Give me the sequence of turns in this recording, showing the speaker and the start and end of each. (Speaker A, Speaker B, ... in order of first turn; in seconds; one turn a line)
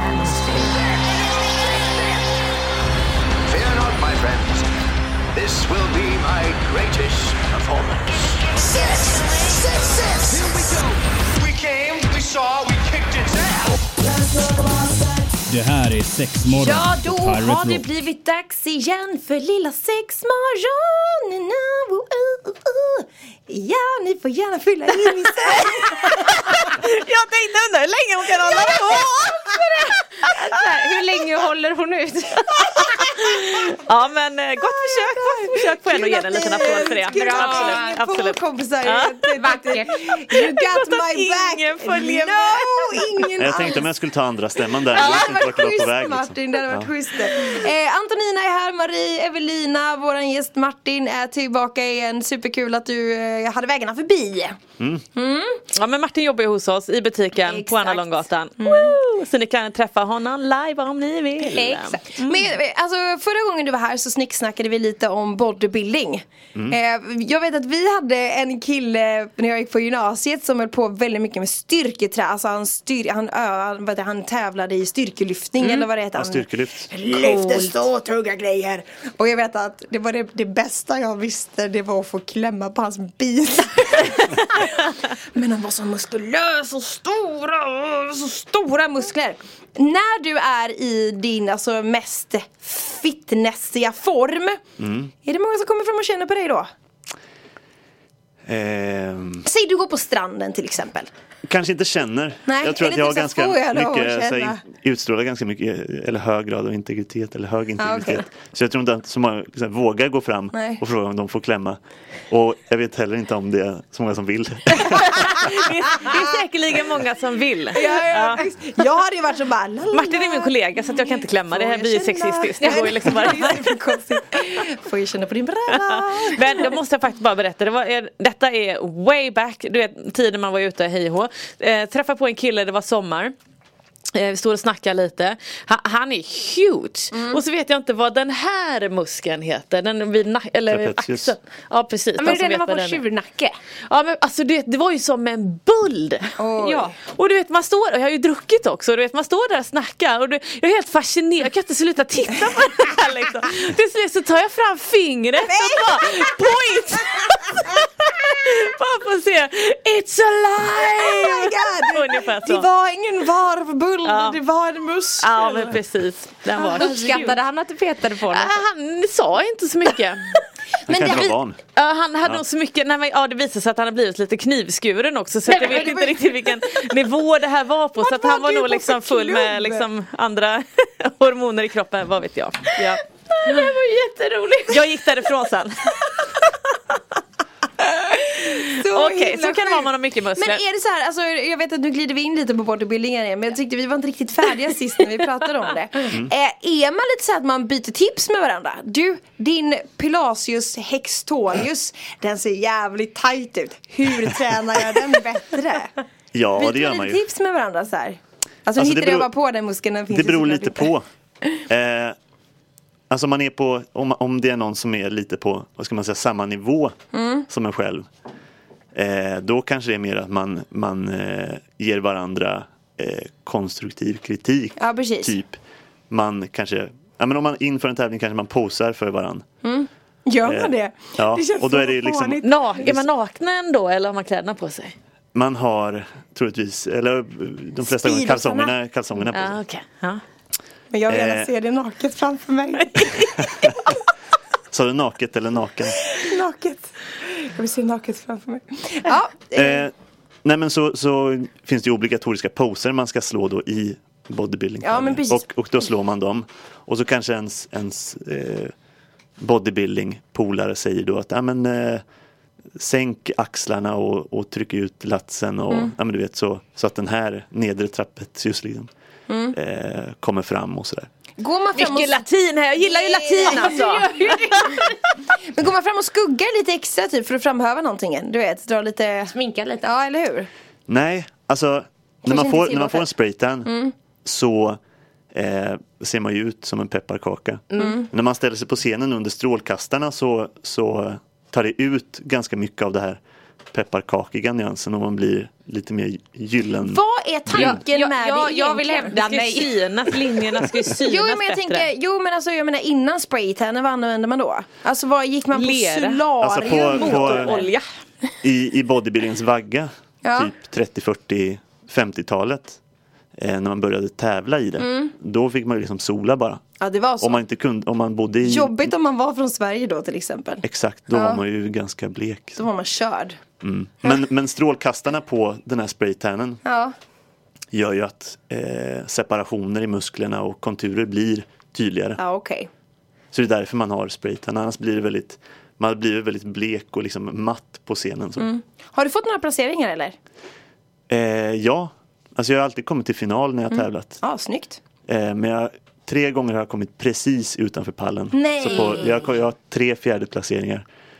Speaker A: 0.1-0.7
Speaker B: 1.7-2.3
Speaker B: 3.5-4.7
Speaker B: 5.3-13.9
Speaker C: 15.5-17.9
Speaker D: 16.5-26.7
Speaker A: 25.5-29.5
Speaker D: 28.4-29.6
Speaker E: 30.2-33.1
Speaker A: 32.8-39.5
Speaker D: 34.6-43.9
Speaker E: 36.7-37.9
Speaker E: 39.4-39.9
Speaker A: 40.1-43.3
Speaker F: 43.4-46.9
Speaker D: 44.9-54.6
Speaker D: 55.1-55.6
Speaker A: 55.7-62.4
Speaker D: 57.5-59.0
Speaker D: 61.4-94.6
Speaker E: 75.6-75.9
Speaker F: 76.1-76.9
Speaker E: 77.2-77.8
Speaker F: 94.8-95.1
Speaker D: 95.2-96.7
Speaker F: 98.5-99.5
Speaker D: 99.5-101.1
Speaker F: 101.5-111.8
Speaker D: 102.5-104.6
Speaker D: 107.8-108.2
Speaker D: 110.5-110.8
Speaker F: 112.3-115.6
Speaker A: 115.2-118.5
Speaker D: 116.0-116.3
Speaker D: 117.7-126.8
Speaker A: 119.9-123.7
Speaker A: 125.7-133.3
Speaker A: 134.1-143.0
Speaker D: 137.1-137.4
Speaker F: 140.7-141.3
Speaker E: 142.2-143.5
Speaker A: 143.9-146.3
Speaker D: 146.4-146.9
Speaker E: 146.6-147.0
Speaker A: 147.0-162.7
Speaker D: 155.4-157.3
Speaker D: 160.6-165.8
Speaker A: 164.1-164.4
Speaker A: 165.2-167.4
Speaker D: 166.5-167.4
Speaker E: 166.8-168.5
Speaker A: 168.3-183.6
Speaker D: 170.9-171.3
Speaker F: 170.9-171.6
Speaker D: 175.5-176.3
Speaker E: 175.6-176.0
Speaker D: 178.0-179.9
Speaker D: 183.5-183.9
Speaker E: 183.5-184.6
Speaker A: 184.7-186.5
Speaker A: 187.9-190.6
Speaker D: 188.7-205.9
Speaker F: 206.3-207.2
Speaker D: 206.6-210.9
Speaker F: 208.8-209.3
Speaker F: 210.1-211.1
Speaker F: 211.7-212.2
Speaker F: 213.1-216.9
Speaker D: 217.1-217.5
Speaker F: 217.5-218.1
Speaker F: 218.9-225.6
Speaker D: 224.8-225.4
Speaker F: 226.1-229.5
Speaker D: 229.6-232.6
Speaker F: 230.4-233.0
Speaker A: 232.4-234.9
Speaker F: 235.3-239.6
Speaker D: 237.8-238.7
Speaker A: 239.3-240.2
Speaker D: 240.9-243.7
Speaker F: 241.1-241.5
Speaker A: 242.9-243.3
Speaker F: 243.4-243.8
Speaker F: 244.7-246.2
Speaker D: 246.1-249.9
Speaker F: 249.5-249.9
Speaker F: 250.4-258.7
Speaker D: 254.8-255.4
Speaker F: 259.4-262.0
Speaker F: 262.8-268.9
Speaker D: 269.3-269.6
Speaker F: 269.5-271.1
Speaker D: 271.4-272.2
Speaker A: 271.8-274.8
Speaker D: 272.8-273.8
Speaker E: 273.4-274.9
Speaker D: 275.4-280.5
Speaker E: 279.3-279.9
Speaker F: 280.9-284.8
Speaker D: 282.2-283.1
Speaker D: 283.7-283.9
Speaker F: 285.3-293.2
Speaker E: 287.7-288.1
Speaker D: 287.8-288.1
Speaker F: 293.7-297.8
Speaker D: 296.8-299.2
Speaker E: 297.6-299.8
Speaker A: 299.1-301.9
Speaker D: 301.0-307.7
Speaker A: 305.5-307.9
Speaker F: 306.4-307.6
Speaker F: 308.4-312.8
Speaker D: 310.2-310.5
Speaker F: 313.4-318.9
Speaker D: 314.8-315.1
Speaker D: 316.8-317.4
Speaker D: 318.4-321.4
Speaker F: 320.6-322.6
Speaker D: 322.6-323.4
Speaker F: 323.6-326.6
Speaker D: 326.6-326.9
Speaker F: 327.7-332.2
Speaker D: 332.2-332.7
Speaker F: 333.3-338.5
Speaker D: 338.4-340.2
Speaker F: 341.1-344.2
Speaker D: 343.7-344.8
Speaker F: 345.1-350.9
Speaker D: 348.3-349.2